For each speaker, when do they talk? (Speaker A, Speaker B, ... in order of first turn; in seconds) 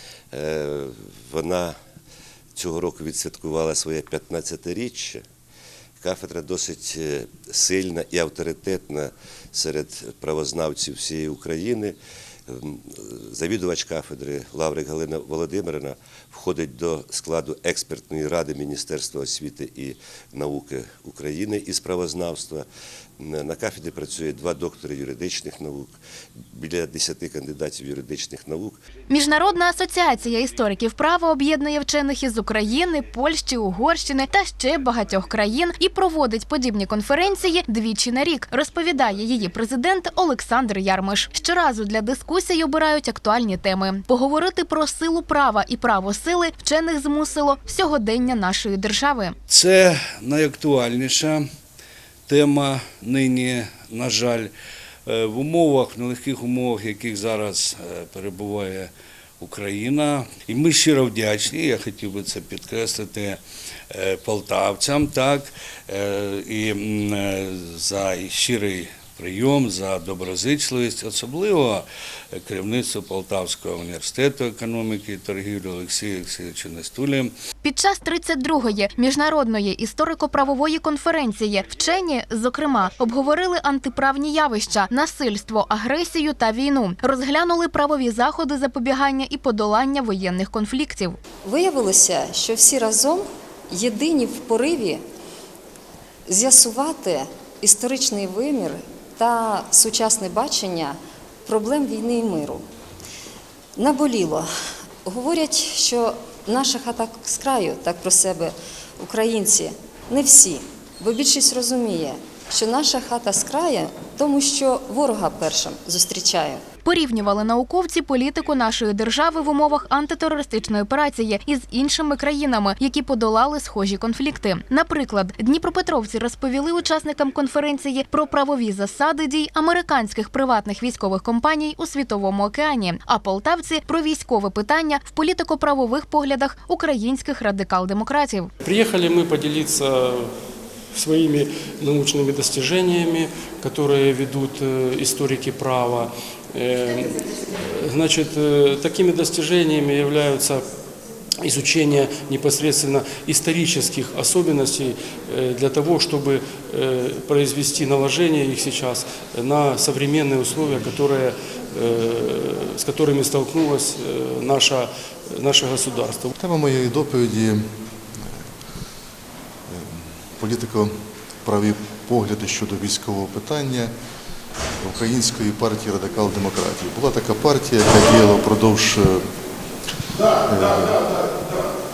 Speaker A: 0.3-1.8, 2.5-5.2, 6.0-11.9, 12.5-22.6, 23.2-25.9, 26.5-28.8
Speaker B: 29.1-49.3, 77.6-91.2, 116.8-138.5
Speaker C: 49.5-51.4, 52.3-54.5, 55.0-63.4, 63.9-77.3
Speaker D: 91.4-95.0, 96.3-102.6, 103.8-104.5, 105.0-116.6
Speaker E: 138.6-140.3, 140.9-150.6, 151.4-166.3
Speaker F: 166.3-168.4, 169.7-173.9, 174.8-179.3, 180.4-181.3